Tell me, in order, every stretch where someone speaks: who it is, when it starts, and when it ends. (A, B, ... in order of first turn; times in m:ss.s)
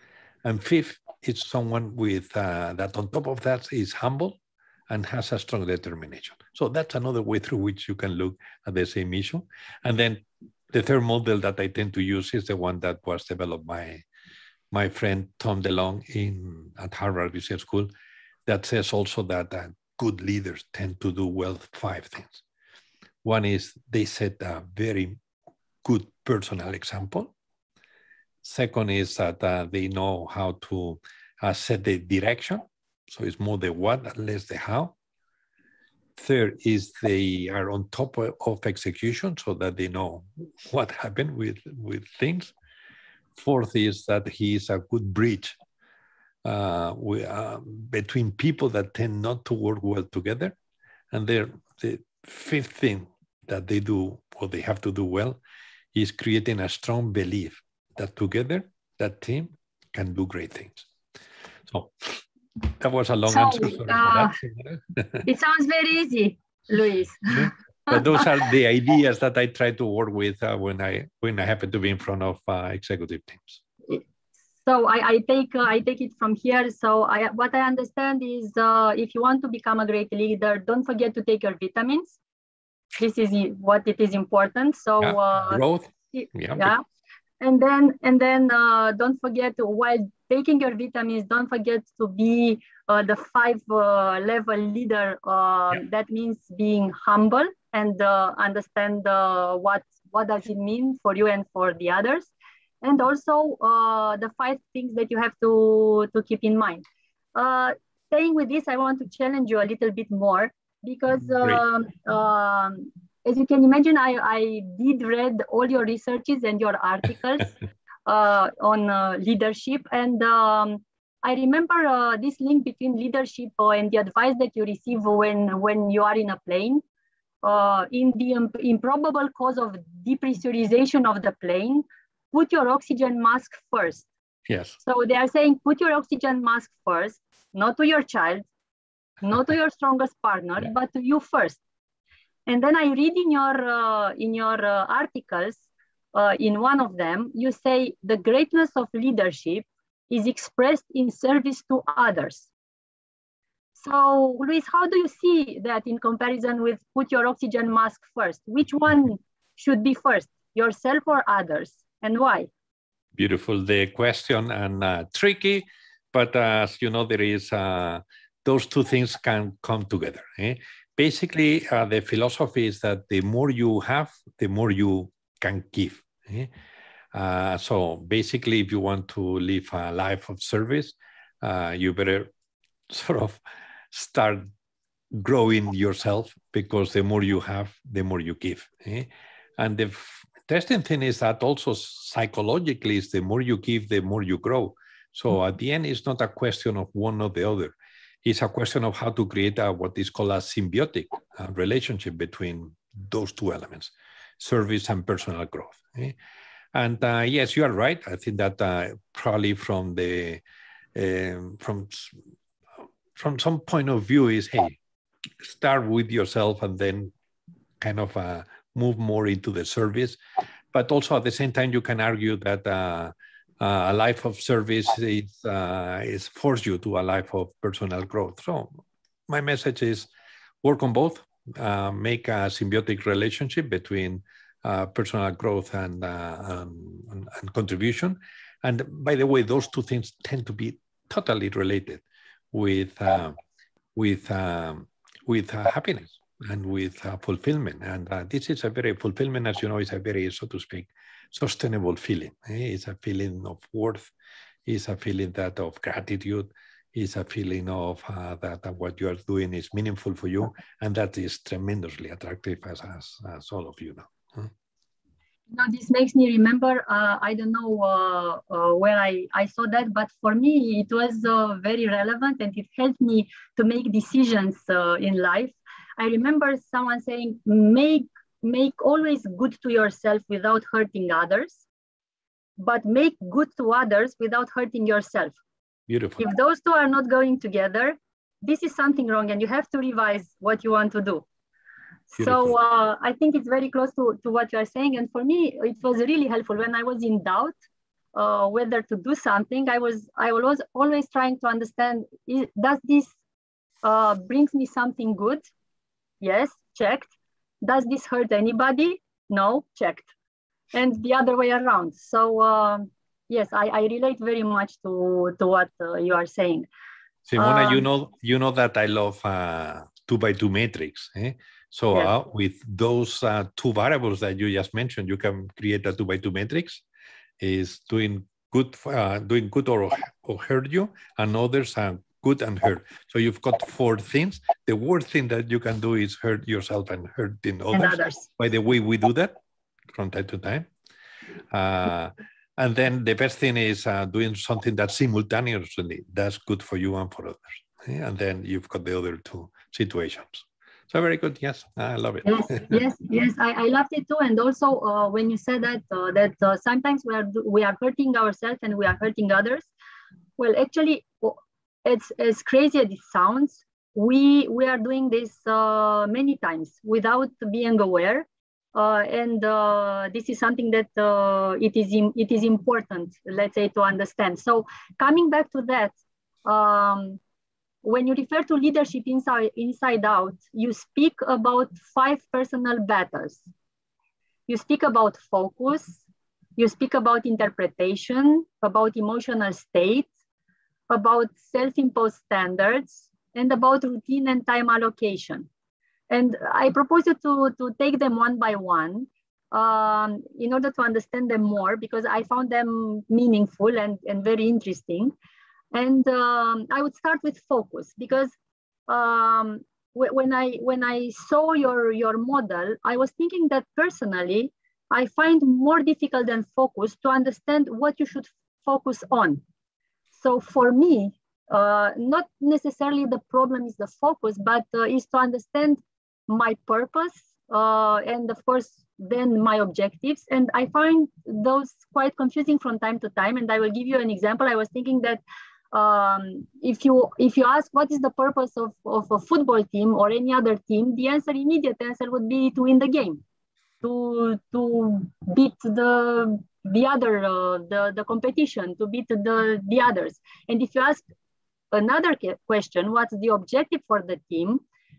0:00.4-0:04.4 A
0:04.9-0:14.0 A
0:14.7-0:17.9 A
0:18.5-0:22.4 A
0:23.2-0:25.2 A
0:25.8-0:27.3 A
0:28.4-0:35.0 A
0:36.2-0:42.5 A
0:43.4-0:45.6 A
0:46.4-0:50.6 A
0:51.1-0:55.4 A
0:55.9-1:00.9 A
1:01.7-1:05.3 A
1:03.3-1:04.4 B
1:05.2-1:08.2 B
1:07.3-1:13.6 A
1:14.6-1:22.2 B
1:23.0-1:26.8 B
1:25.0-1:26.7 A
1:27.4-1:57.5 B
1:58.1-2:06.8 B
2:07.4-2:14.1 B
2:14.5-2:14.8 A
2:14.8-2:18.5 B
2:19.2-2:21.6 B
2:22.5-2:32.5 B
2:33.8-2:42.5 B
2:43.2-2:56.5 A
2:57.1-3:02.3 A
3:02.9-3:04.5 A
3:05.1-3:26.2 A
3:26.7-3:30.4 A
3:31.0-3:32.2 A
3:33.2-3:34.8 A
3:35.4-3:37.1 A
3:37.8-3:40.2 A
3:40.7-3:50.1 A
3:50.6-4:03.4 A
4:04.0-4:14.1 A
4:14.6-4:24.5 A
4:25.5-4:41.6 B
4:42.6-4:45.4 B
4:45.9-4:46.2 A
4:46.2-4:51.2 B
4:52.1-4:57.5 B
4:52.2-4:52.6 A
4:58.1-5:03.2 B
5:03.8-5:05.4 B
5:06.2-5:07.1 B
5:07.6-5:10.1 B
5:10.7-5:16.7 B
5:17.3-5:26.8 A
5:17.4-5:17.8 B
5:27.4-5:39.4 A
5:37.7-5:38.3 B
5:39.9-5:40.7 A
5:41.5-5:52.8 A
5:52.2-5:59.7 B
6:00.4-6:17.2 B
6:17.8-6:23.5 B
6:24.5-6:26.0 B
6:26.6-6:30.1 B
6:30.9-6:35.5 B
6:36.1-6:45.1 B
6:45.7-6:48.3 B
6:48.9-6:59.4 B
7:00.1-7:15.2 B
7:15.7-7:23.2 B
7:23.8-7:31.1 B
7:31.7-7:34.6 B